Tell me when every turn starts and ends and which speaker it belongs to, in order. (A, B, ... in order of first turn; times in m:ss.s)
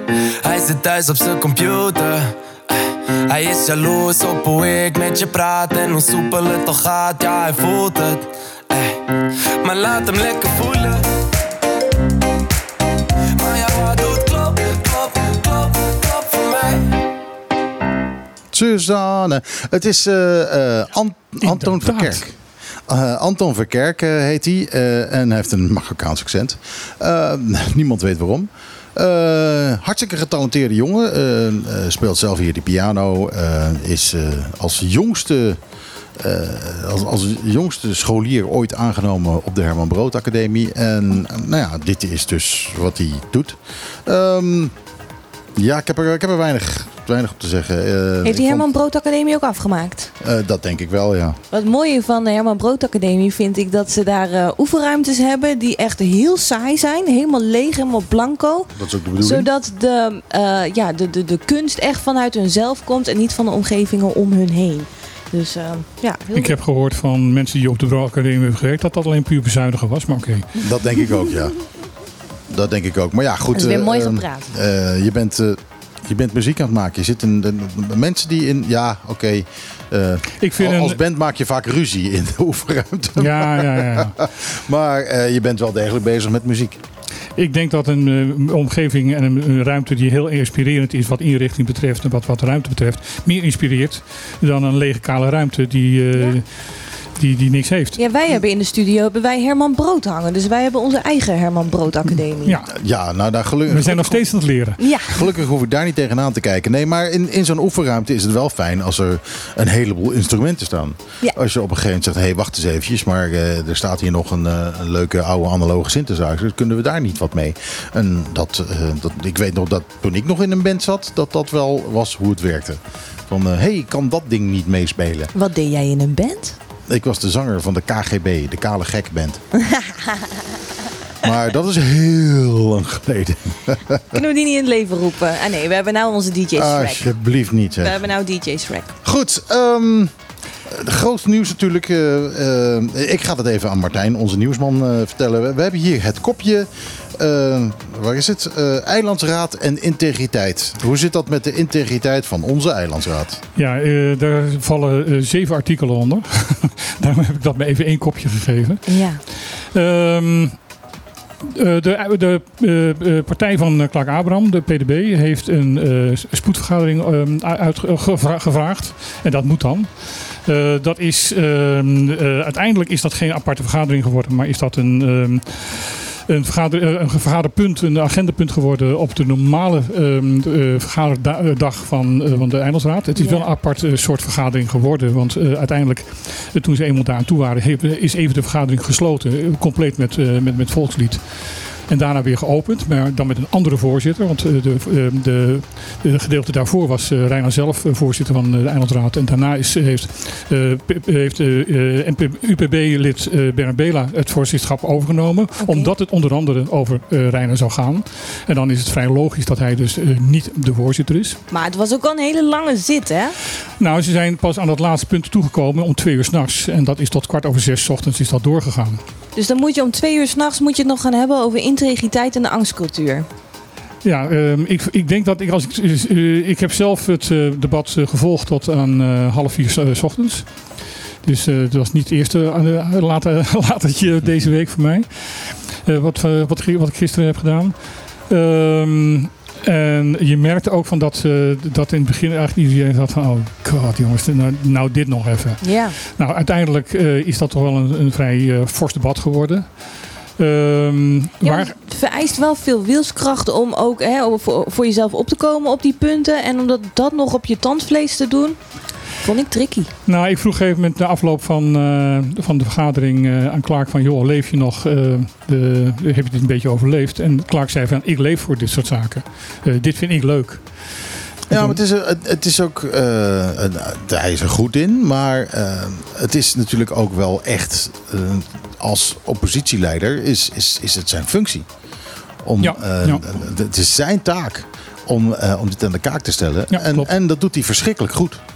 0:00.4-0:09.0 A
0:09.6-0:11.0 A
0:13.3-0:17.0 A
0:18.5-0:22.3 B
0:21.4-0:22.3 C
0:22.9-0:35.6 B
0:36.2-0:44.7 B
0:45.6-0:48.7 B
0:48.2-0:50.1 D
0:50.2-0:51.4 B
0:51.5-1:06.6 D
0:58.7-0:59.5 B
1:06.3-1:10.5 C
1:10.6-1:11.5 B
1:12.5-1:26.8 B
1:13.5-1:14.5 D
1:20.4-1:21.0 C
1:23.2-1:24.1 C
1:27.4-1:38.0 C
1:38.0-1:42.6 D
1:42.4-1:42.7 C
1:42.7-1:44.2 B
1:43.7-1:44.8 C
1:44.8-1:45.2 D
1:45.1-2:05.3 B
2:05.3-2:06.6 D
2:06.9-2:09.4 B
2:09.6-2:10.3 D
2:11.2-2:14.2 B
2:14.1-2:17.2 D
2:16.5-2:18.0 B
2:17.8-2:19.0 D
2:19.0-2:20.1 B
2:20.7-2:33.4 B
2:33.6-2:40.6 C
2:38.9-2:39.2 D
2:41.5-3:31.4 C
3:03.2-3:03.4 D
3:25.6-3:25.9 D
3:31.5-3:33.4 D
3:33.8-3:39.0 C
3:39.4-3:43.3 D
3:44.0-3:50.6 C
3:51.2-4:11.7 C
4:05.6-4:06.0 D
4:11.4-4:18.6 D
4:19.1-4:19.9 D
4:20.0-4:30.9 C
4:31.5-4:41.6 B
4:31.5-4:31.8 C
4:42.4-4:48.4 B
4:42.6-4:43.2 C
4:46.7-4:47.1 C